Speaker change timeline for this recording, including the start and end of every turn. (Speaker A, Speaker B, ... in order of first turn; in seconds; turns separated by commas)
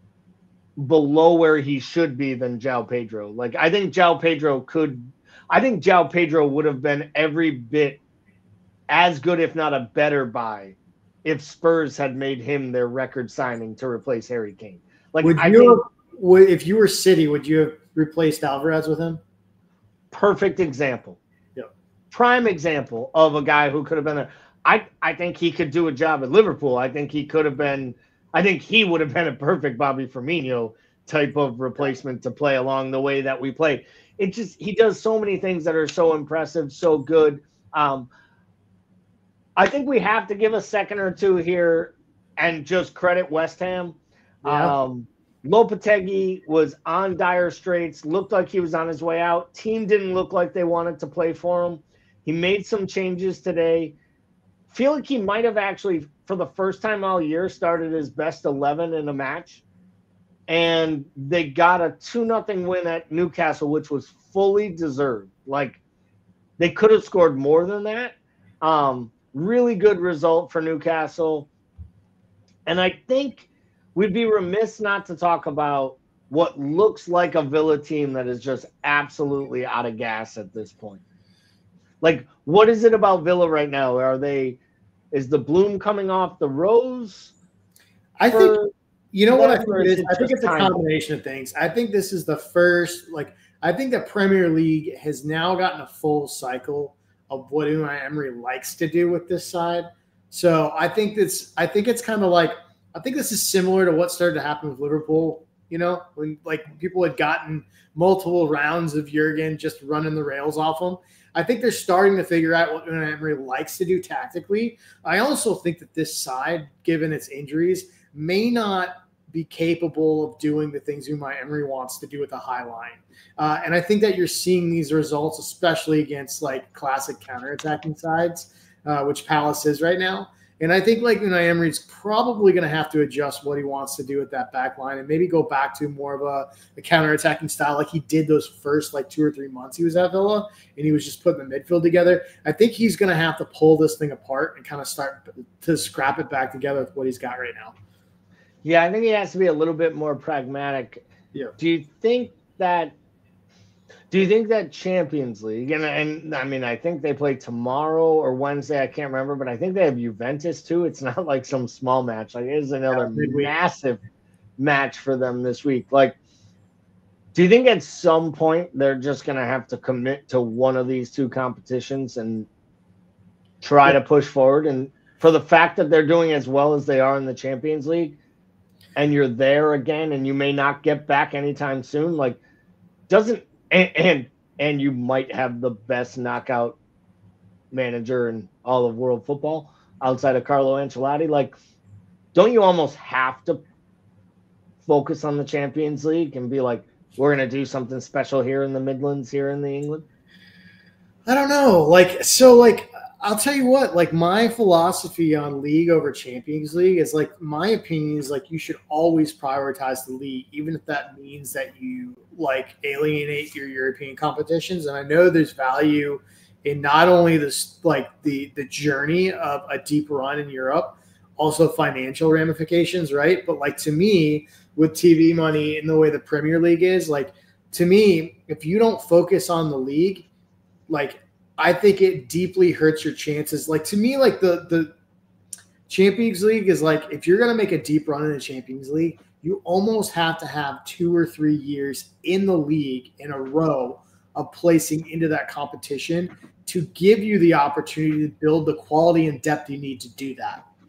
Speaker A: 0.8-8.0, Speaker A: 8.9-15.8, Speaker B: 15.2-19.2, Speaker A: 20.1-21.2, Speaker A: 22.1-38.1, Speaker A: 39.6-54.0, Speaker B: 44.4-44.7, Speaker A: 54.7-59.6, Speaker A: 60.5-65.8, Speaker A: 66.6-71.5, Speaker A: 72.7-81.0, Speaker A: 82.0-84.6, Speaker A: 85.1-87.3, Speaker B: 88.2-88.6, Speaker A: 88.3-88.7, Speaker B: 89.1-147.7, Speaker A: 89.3-90.8, Speaker A: 148.6-151.1, Speaker A: 151.6-152.9, Speaker A: 154.1-164.0, Speaker B: 162.9-163.5, Speaker A: 164.6-166.2, Speaker A: 167.3-172.5, Speaker A: 173.6-178.2, Speaker A: 178.9-182.4, Speaker A: 183.1-186.8, Speaker A: 187.7-191.6, Speaker A: 192.3-193.6, Speaker A: 194.8-200.0, Speaker B: 201.3-230.3, Speaker B: 230.9-234.9, Speaker B: 235.9-250.6